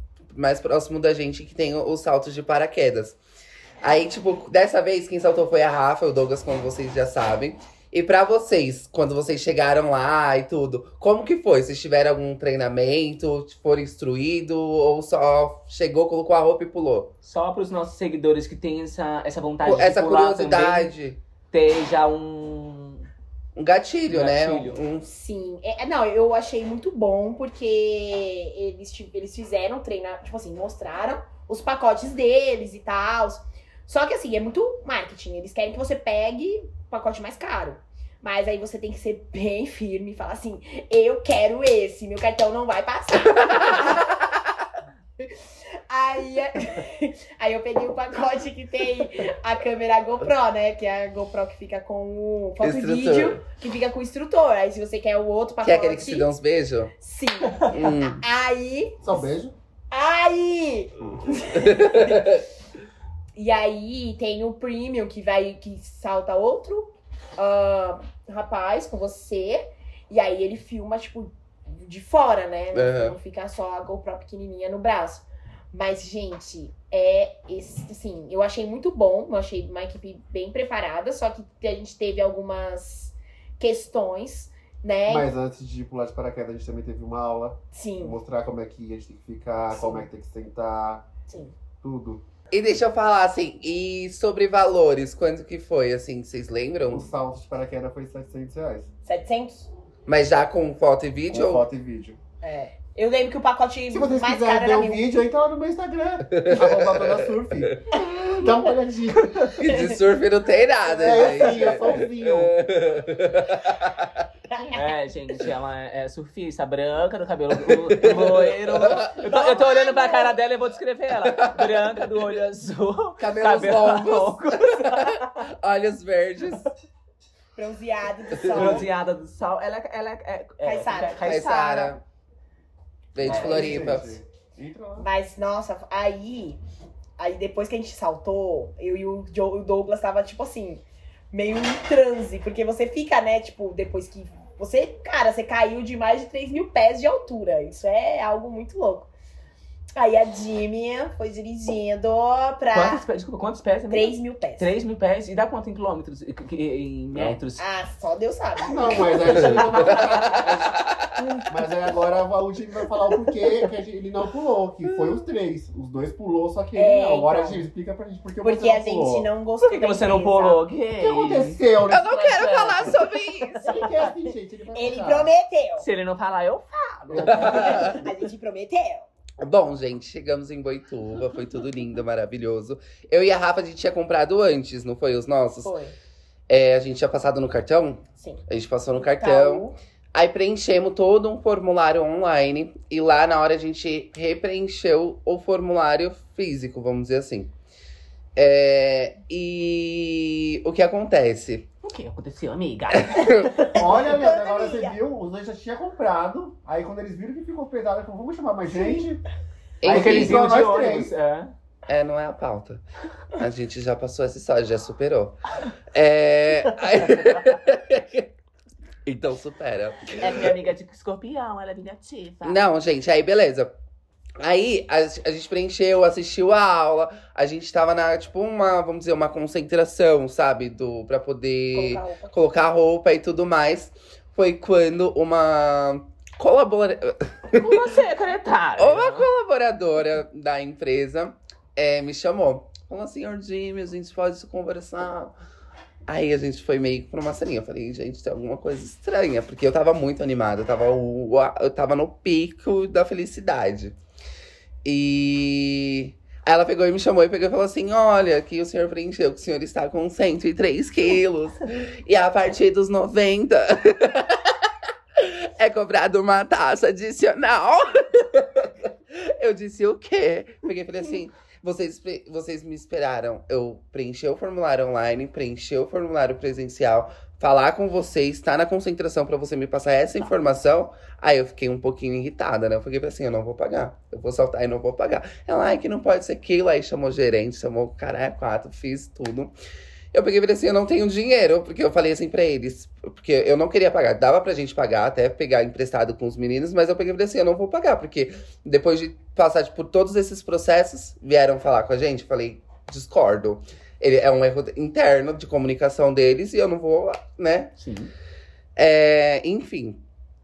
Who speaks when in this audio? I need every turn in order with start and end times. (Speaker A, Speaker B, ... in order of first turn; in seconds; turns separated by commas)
Speaker A: 0.3-3.2, Speaker A: 3.8-17.1, Speaker B: 17.2-20.9, Speaker A: 19.6-21.2, Speaker B: 21.5-23.1, Speaker A: 23.6-25.1, Speaker B: 24.1-24.8, Speaker C: 25.0-44.2, Speaker A: 43.5-44.1, Speaker C: 45.2-56.3, Speaker A: 52.6-53.4, Speaker A: 55.6-56.9, Speaker C: 57.0-59.3, Speaker A: 57.7-58.2, Speaker D: 59.0-59.5, Speaker C: 59.9-62.3, Speaker A: 61.5-62.4, Speaker C: 63.4-85.3, Speaker A: 72.7-73.2, Speaker D: 85.1-91.1, Speaker C: 87.7-88.2, Speaker C: 89.7-90.1, Speaker C: 91.3-91.5, Speaker D: 91.8-92.2, Speaker A: 92.5-97.1, Speaker D: 96.9-98.9, Speaker C: 99.0-99.7, Speaker A: 100.1-101.6, Speaker D: 101.3-102.2, Speaker C: 102.4-105.1, Speaker D: 103.9-109.4, Speaker A: 106.3-108.0, Speaker A: 109.4-114.2, Speaker D: 111.0-112.6, Speaker C: 111.0-111.8, Speaker B: 114.7-125.4, Speaker A: 117.9-119.1, Speaker C: 119.1-120.4, Speaker A: 121.3-121.8, Speaker A: 123.2-126.7, Speaker C: 127.5-128.9, Speaker A: 128.4-128.8, Speaker B: 128.5-132.0, Speaker C: 130.6-131.4, Speaker A: 131.2-132.0, Speaker A: 133.1-134.2, Speaker D: 133.2-135.1, Speaker B: 133.2-133.8, Speaker C: 135.0-136.6, Speaker C: 137.2-149.1, Speaker C: 150.0-153.0, Speaker B: 152.7-157.6, Speaker C: 153.9-154.7, Speaker A: 157.1-157.4, Speaker C: 157.6-159.6, Speaker D: 158.6-160.7, Speaker A: 159.3-160.5, Speaker B: 159.8-160.3, Speaker D: 161.5-169.3, Speaker A: 164.9-165.2, Speaker C: 166.7-167.7, Speaker C: 168.4-170.6, Speaker B: 169.6-173.8, Speaker D: 171.0-172.9, Speaker A: 171.9-173.8, Speaker D: 173.6-175.3, Speaker C: 173.8-175.9, Speaker B: 175.8-177.6, Speaker C: 176.8-179.1, Speaker D: 177.1-178.0, Speaker A: 177.3-178.0, Speaker A: 179.4-185.7, Speaker C: 185.6-185.9, Speaker A: 186.5-197.5, Speaker C: 188.2-188.4, Speaker C: 189.1-189.8, Speaker A: 198.4-201.7, Speaker B: 201.8-203.8, Speaker D: 203.7-209.2, Speaker C: 203.7-205.0, Speaker C: 208.7-209.1, Speaker A: 209.8-210.4, Speaker D: 209.8-211.1, Speaker B: 209.9-211.5, Speaker A: 211.9-212.8, Speaker A: 213.4-215.4, Speaker A: 215.9-218.3, Speaker A: 219.1-220.5, Speaker B: 220.2-222.6, Speaker A: 222.4-223.7, Speaker A: 224.4-237.7, Speaker C: 231.7-232.3, Speaker B: 237.5-239.3, Speaker A: 238.8-245.3, Speaker A: 246.1-253.9, Speaker A: 254.8-264.6, Speaker A: 265.2-289.5, Speaker A: 290.1-307.7, Speaker B: 307.8-308.1, Speaker A: 308.8-310.0